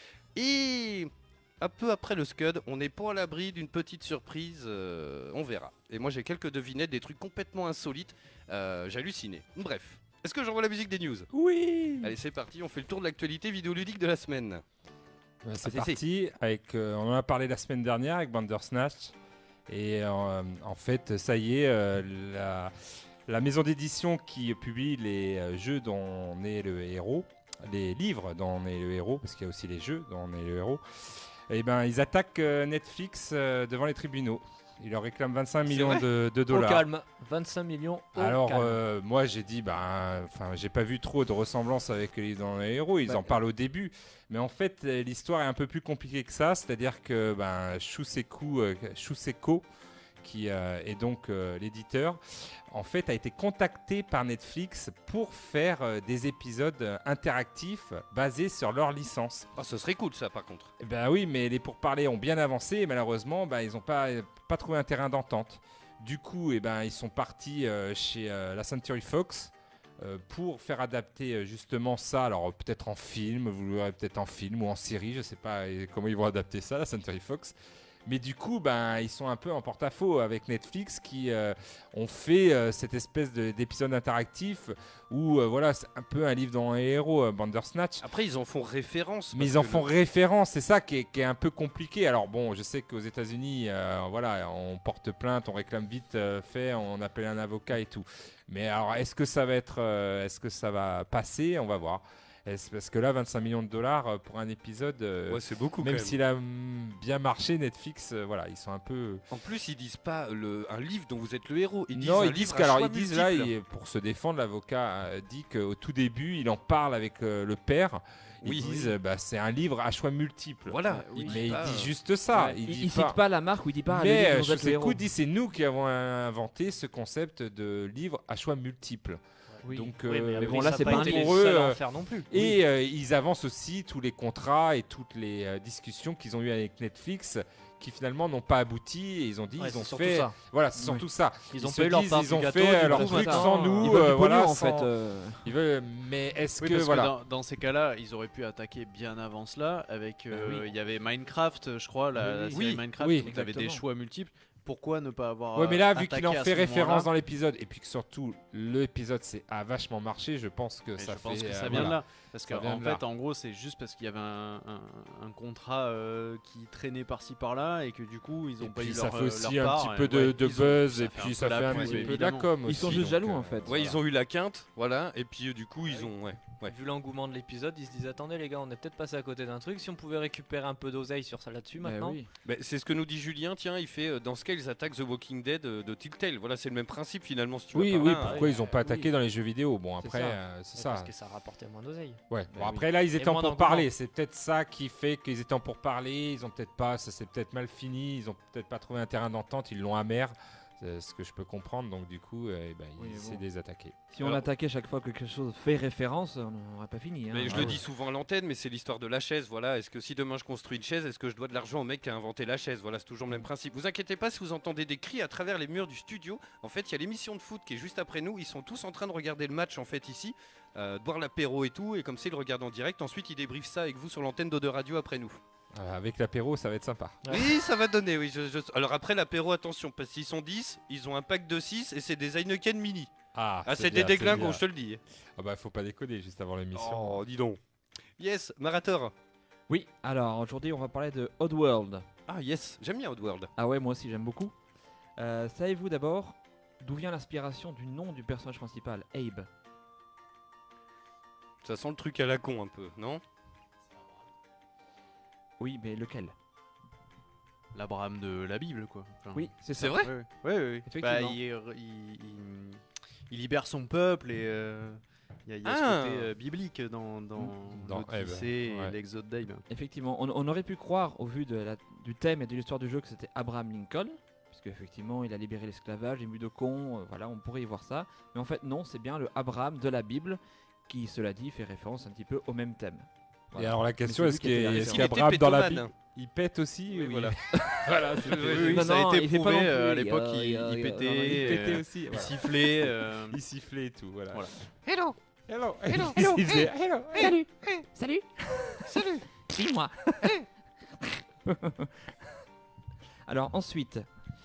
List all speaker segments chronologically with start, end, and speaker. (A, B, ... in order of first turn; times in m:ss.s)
0:00.3-0:11.3 A
0:11.3-0:12.2 B
0:12.0-0:14.6 A
0:15.4-0:19.1 B
0:15.6-0:16.0 A
0:19.7-0:22.7 B
0:23.3-0:36.9 B
0:35.7-0:36.0 A
0:36.5-0:38.8 C
0:38.2-0:49.6 B
0:50.2-0:59.5 B
0:59.6-1:00.7 A
1:00.8-1:17.5 B
1:18.0-1:28.0 B
1:28.0-1:29.9 A
1:29.3-1:49.2 B
1:45.3-1:46.2 A
1:49.3-1:53.5 A
1:51.9-2:03.2 B
1:58.4-1:58.9 A
2:00.7-2:01.9 A
2:00.9-2:01.4 D
2:02.3-2:05.0 D
2:03.9-2:24.9 B
2:09.6-2:11.5 D
2:09.9-2:12.3 C
2:19.6-2:20.3 C
2:20.8-2:21.0 D
2:21.5-2:23.9 C
2:22.8-2:25.5 D
2:25.4-2:27.1 B
2:26.6-2:37.1 E
2:30.3-2:30.7 D
2:32.2-2:33.8 D
2:32.5-2:32.8 A
2:33.0-2:33.3 B
2:35.5-2:43.0 B
2:41.0-2:52.5 E
2:48.6-2:54.0 B
2:51.7-2:53.9 D
2:53.6-2:56.7 A
2:56.6-3:02.2 C
3:01.8-3:02.3 D
3:02.4-3:08.4 A
3:07.7-3:11.1 B
3:08.0-3:09.1 D
3:08.3-3:08.7 C
3:10.0-3:10.4 D
3:10.7-3:12.2 C
3:12.3-3:24.1 B
3:12.5-3:12.8 D
3:13.1-3:13.9 C
3:23.0-3:23.4 D
3:24.1-3:27.8 D
3:27.3-3:45.4 A
3:27.4-3:27.8 B
3:45.7-3:47.2 B
3:47.2-3:47.5 C
3:47.3-3:53.1 A
3:53.3-3:54.6 B
3:53.6-3:55.0 A
3:55.4-3:57.2 B
3:56.7-3:57.6 A
3:58.2-3:59.1 A
3:59.7-4:02.0 D
4:02.3-4:03.5 A
4:03.6-4:04.5 D
4:05.2-4:09.5 D
4:11.6-4:13.2 A
4:15.6-4:16.3 D
4:17.7-4:29.6 E
4:19.3-4:20.1 D
4:19.8-4:20.1 A
4:20.8-4:21.4 D
4:25.6-4:26.3 A
4:27.4-4:28.9 B
4:29.7-4:45.1 D
4:43.6-4:48.9 B
4:44.7-4:45.9 A
4:46.9-4:47.4 A
4:47.5-4:47.8 D
4:48.2-4:48.8 A
4:48.4-4:52.3 D
4:48.5-4:53.4 E
4:51.4-4:54.5 B
4:54.8-4:55.2 A
4:55.5-4:57.4 B
4:56.2-5:00.4 D
4:58.9-4:59.2 A
5:01.0-5:02.3 D
5:03.3-5:04.1 D